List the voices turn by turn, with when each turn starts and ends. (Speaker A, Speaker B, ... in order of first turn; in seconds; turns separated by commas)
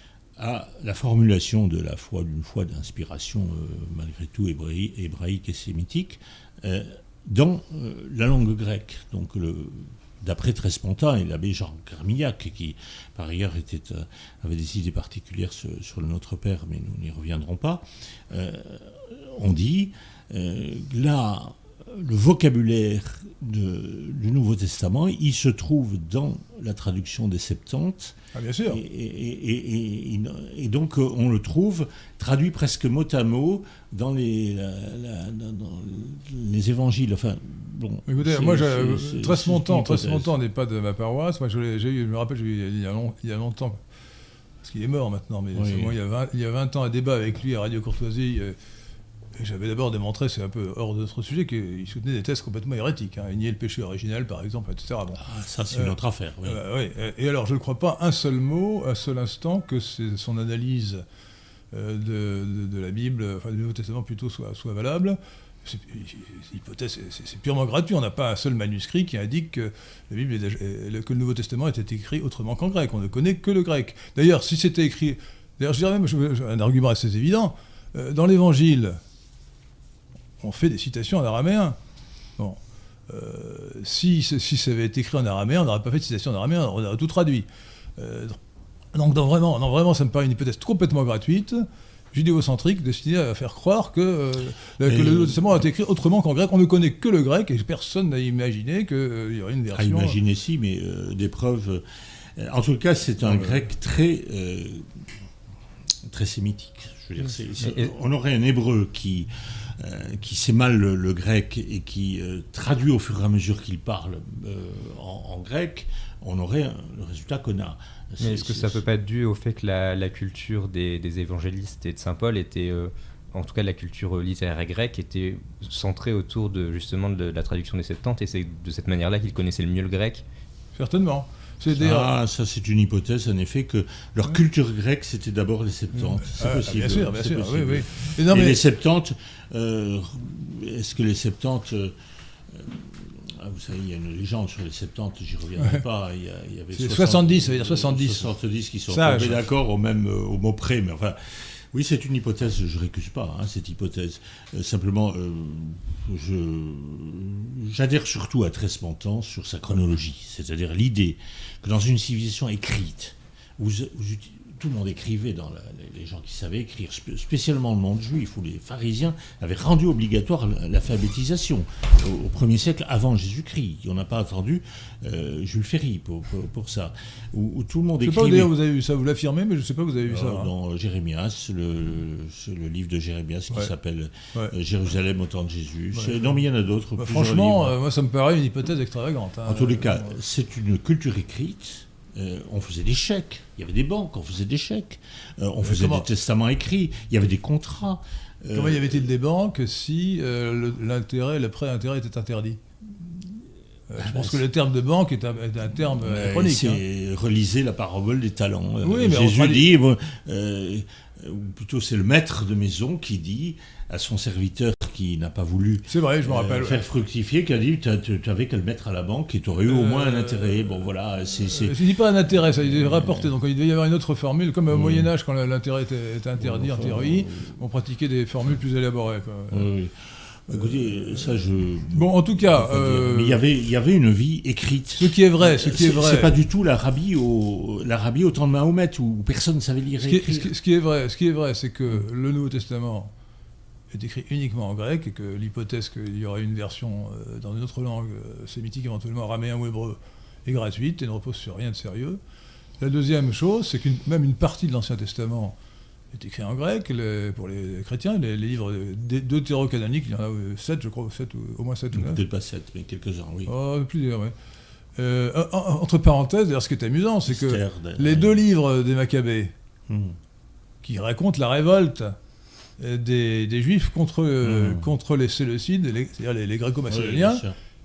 Speaker A: 0.4-28.2, Speaker B: 28.3-28.8, Speaker A: 28.7-40.3, Speaker B: 38.1-43.8, Speaker B: 44.6-48.6, Speaker A: 45.5-46.0, Speaker B: 49.4-61.0, Speaker A: 55.2-56.6, Speaker B: 61.7-79.0, Speaker B: 80.4-81.8, Speaker B: 82.4-88.4, Speaker B: 88.9-100.2, Speaker A: 94.8-95.6, Speaker A: 99.7-101.8, Speaker A: 102.4-104.9, Speaker B: 103.2-103.6, Speaker A: 106.0-118.8, Speaker C: 107.6-107.9, Speaker C: 118.2-130.2, Speaker B: 130.8-132.1, Speaker A: 131.7-141.9, Speaker B: 136.0-138.6, Speaker A: 142.5-178.5, Speaker B: 145.6-145.8, Speaker B: 146.7-148.3, Speaker B: 148.9-149.4, Speaker B: 178.0-180.5, Speaker A: 180.1-187.8, Speaker B: 185.9-186.4, Speaker B: 187.0-190.2, Speaker A: 189.5-199.1, Speaker B: 195.6-196.1, Speaker B: 198.5-202.6, Speaker B: 203.9-206.8, Speaker A: 204.0-204.4, Speaker A: 205.8-221.8, Speaker B: 208.8-209.7, Speaker B: 215.9-216.8, Speaker B: 219.7-229.7, Speaker A: 222.6-223.3, Speaker A: 224.7-225.1, Speaker A: 226.4-227.6, Speaker A: 229.5-240.5, Speaker B: 230.5-231.4, Speaker B: 231.9-233.4, Speaker B: 234.9-236.3, Speaker B: 240.0-243.1, Speaker B: 243.9-252.2, Speaker B: 252.8-255.6, Speaker B: 256.1-262.2, Speaker A: 261.9-263.5, Speaker B: 263.5-264.3, Speaker B: 265.0-269.5, Speaker A: 267.3-268.4, Speaker A: 269.9-270.2, Speaker B: 270.8-272.2, Speaker B: 272.8-277.4, Speaker A: 274.4-274.9, Speaker A: 276.9-277.6